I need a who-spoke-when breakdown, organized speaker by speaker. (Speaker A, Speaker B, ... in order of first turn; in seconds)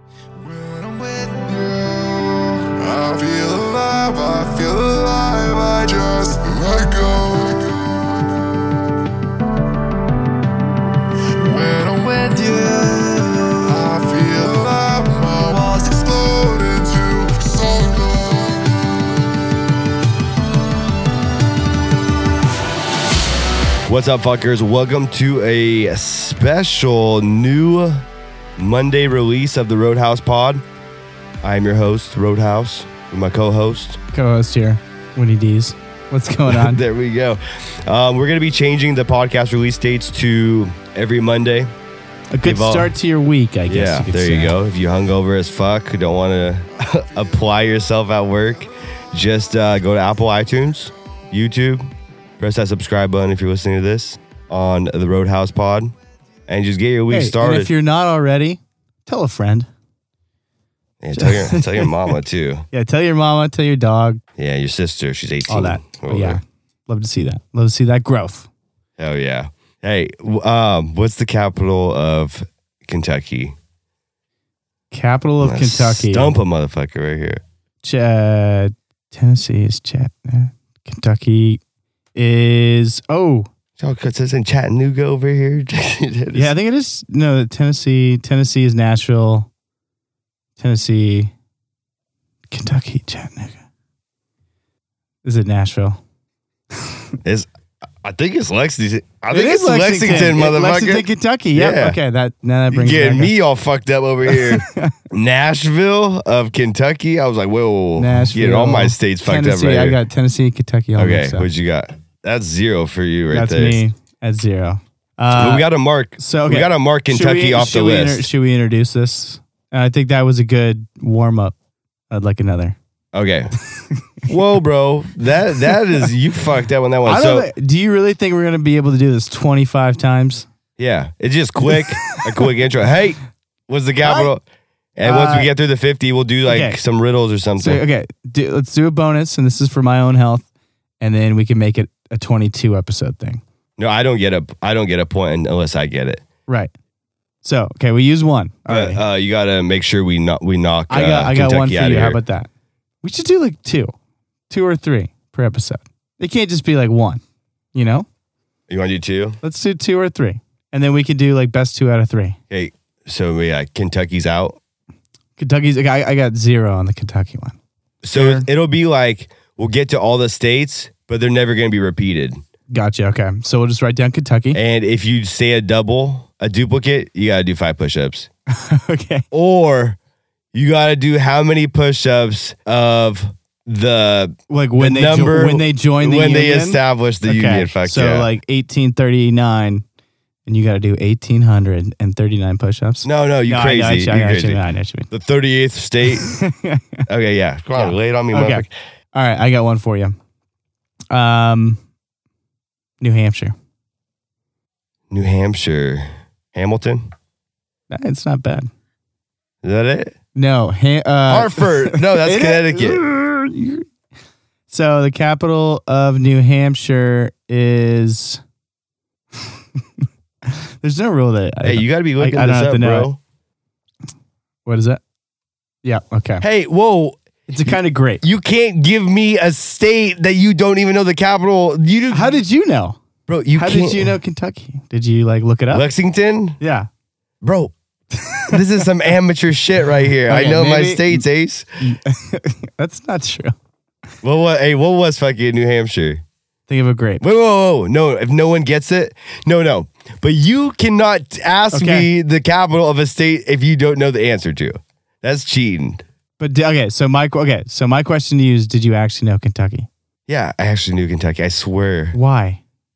Speaker A: 0.4-7.8, 11.4-18.7
Speaker B: 23.9-28.1, 28.6-30.6, 31.4-34.0, 36.5-41.7, 42.4-42.9, 43.7-51.8, 52.4-55.9, 56.5-57.7, 61.0-62.6, 64.4-66.4, 69.0-73.5, 75.4-77.4, 83.8-86.5, 98.0-102.0, 102.7-110.0, 111.0-113.8, 115.3-118.3, 123.1-123.5, 124.3-127.5, 130.8-134.4, 135.0-137.8, 143.8-146.2, 148.7-152.2, 158.7-159.4, 162.5-164.6, 168.0-172.4, 174.5-178.3, 179.3-180.0, 180.5-188.3, 193.0-196.3, 197.1-198.7, 205.1-207.1, 209.6-210.1, 211.3-213.0, 221.6-223.2, 226.4-232.3, 233.3-234.1, 235.7-236.6, 237.4-237.7, 238.5-241.7, 244.2-246.2, 247.2-256.0, 260.3-262.1
Speaker C: 34.1-36.8, 42.3-44.5, 57.1-59.7, 61.2-62.1, 62.7-64.2, 65.5-68.5, 74.9-76.4, 77.8-81.6, 82.1-83.5, 86.3-89.5, 90.6-91.3, 92.5-93.6, 95.2-96.0, 99.3-103.3, 104.3-104.9, 108.0-111.5, 113.3-121.5, 122.1-122.8, 127.0-130.5, 131.7-132.2, 134.0-134.3, 135.0-135.5, 136.5-136.8, 137.6-140.4, 141.0-143.4, 147.4-149.0, 150.9-152.5, 153.0-153.9, 154.5-157.2, 157.7-158.1, 159.4-162.4, 165.4-167.6, 168.1-168.5, 172.7-174.6, 178.5-179.2, 184.5-189.8, 190.4-195.1, 196.1-197.0, 197.8-200.2, 201.1-201.8, 203.0-203.5, 207.9-208.7, 210.3-213.8, 214.7-218.4, 220.4-223.1, 224.7-225.0, 225.8-226.4, 227.5-228.2, 232.1-233.0, 233.6-235.8, 236.6-236.9, 238.1-238.8, 240.3-241.2, 241.8-243.5, 246.7-247.2, 251.7-252.1, 256.4-259.9, 262.1-262.6